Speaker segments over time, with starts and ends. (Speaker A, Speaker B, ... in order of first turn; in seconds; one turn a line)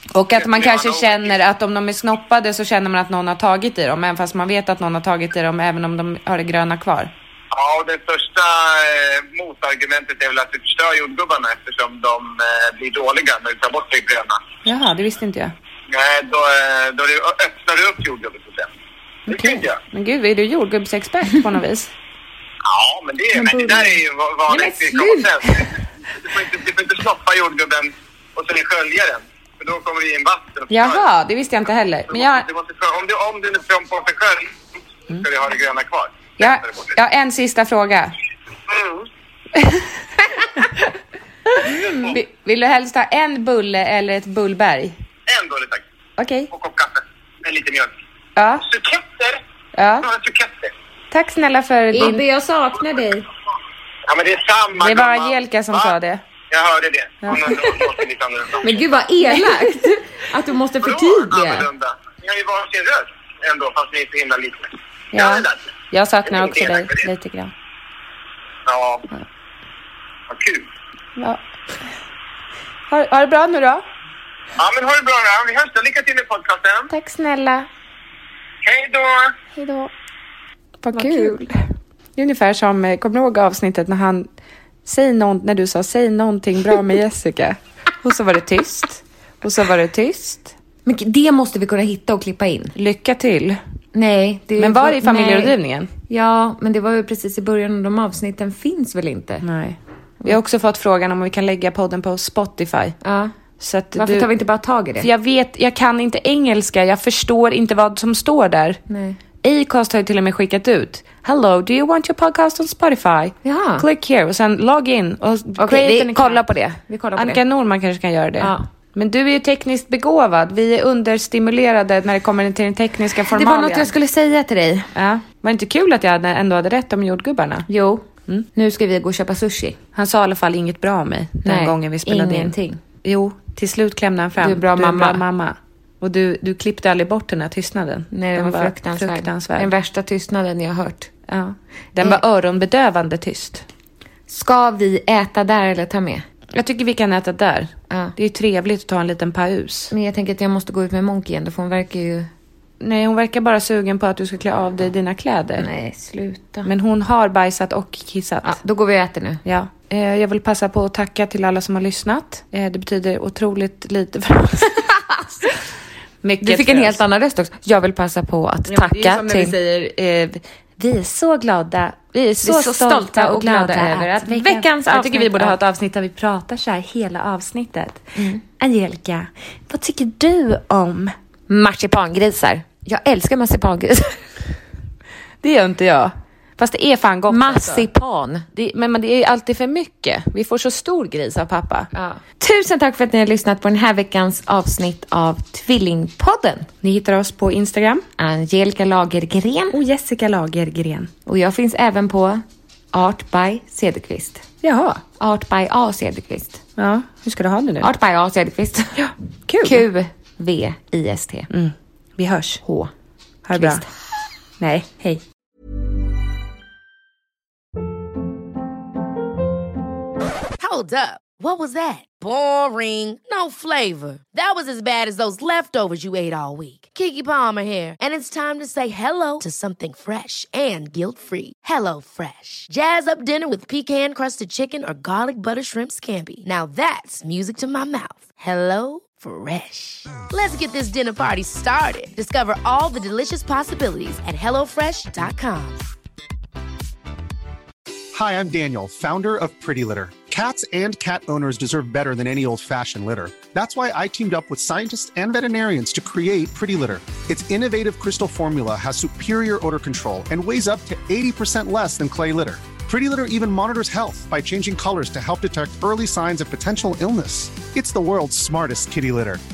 Speaker A: 0.1-7.1
Speaker B: 0.3-1.3
Speaker B: 7.5-14.4
Speaker A: 14.6-15.5
Speaker B: 15.9-18.7
Speaker A: 19.3-21.9
Speaker B: 19.3-19.8
Speaker B: 22.6-31.1
Speaker C: 23.4-23.9
Speaker A: 24.5-25.7
Speaker A: 30.7-32.5
Speaker B: 32.1-34.6
Speaker B: 35.1-36.9
Speaker A: 36.4-38.1
Speaker B: 38.7-39.1
Speaker A: 39.5-39.9
Speaker A: 41.5-45.0
Speaker C: 41.6-42.1
Speaker B: 41.9-42.2
Speaker B: 45.3-45.8
Speaker A: 46.2-46.5
Speaker B: 46.5-48.0
Speaker A: 48.4-48.6
Speaker B: 48.6-49.4
Speaker A: 49.7-50.1
Speaker B: 50.0-50.7
Speaker A: 51.1-52.2
Speaker C: 51.9-53.3
Speaker B: 54.1-55.9
Speaker A: 54.8-56.2
Speaker B: 56.5-58.9
Speaker C: 58.6-61.7
Speaker A: 59.3-59.7
Speaker B: 60.8-65.6
Speaker A: 65.1-67.5
Speaker B: 66.3-67.0
Speaker B: 68.6-69.0
Speaker B: 70.3-70.7
Speaker A: 71.2-71.9
Speaker A: 72.9-73.8
Speaker B: 74.6-76.9
Speaker A: 76.9-77.7
Speaker B: 78.6-79.3
Speaker A: 79.5-79.9
Speaker A: 80.8-81.5
Speaker C: 80.9-81.4
Speaker A: 82.2-84.3
Speaker A: 84.8-90.5
Speaker C: 90.8-92.7
Speaker A: 92.7-93.6
Speaker C: 93.9-95.5
Speaker A: 94.6-95.9
Speaker C: 96.1-99.5
Speaker A: 99.4-103.0
Speaker C: 103.0-103.3
Speaker A: 103.6-104.3
Speaker C: 104.0-105.1
Speaker A: 105.0-108.8
Speaker C: 108.9-109.2
Speaker A: 109.4-123.9
Speaker C: 113.4-113.8
Speaker C: 115.6-117.4
Speaker C: 118.4-118.6
Speaker C: 123.3-124.9
Speaker A: 124.9-127.7
Speaker C: 127.7-129.8
Speaker A: 129.9-139.7
Speaker C: 131.4-132.8
Speaker C: 134.4-135.2
Speaker C: 138.1-141.1
Speaker A: 141.3-143.6
Speaker C: 144.3-146.2
Speaker A: 146.6-149.9
Speaker C: 147.9-148.1
Speaker C: 149.9-152.3
Speaker A: 152.8-155.7
Speaker C: 155.6-156.7
Speaker A: 156.6-158.6
Speaker C: 158.4-159.4
Speaker A: 159.4-164.8
Speaker A: 166.2-167.0
Speaker C: 166.4-169.6
Speaker A: 168.7-181.1
Speaker C: 172.4-175.6
Speaker C: 181.5-184.3
Speaker A: 185.4-187.9
Speaker C: 187.3-188.4
Speaker A: 188.6-191.9
Speaker C: 191.9-196.7
Speaker A: 196.8-198.1
Speaker C: 198.2-199.8
Speaker A: 199.7-201.1
Speaker C: 201.3-204.4
Speaker A: 204.6-205.0
Speaker C: 205.2-206.6
Speaker A: 206.8-207.9
Speaker C: 207.8-209.0
Speaker A: 208.9-209.8
Speaker C: 209.6-211.5
Speaker A: 211.5-212.6
Speaker C: 212.6-212.9
Speaker A: 213.5-213.8
Speaker C: 213.5-213.8
Speaker A: 214.6-215.2
Speaker D: 220.6-245.8
Speaker E: 248.1-269.4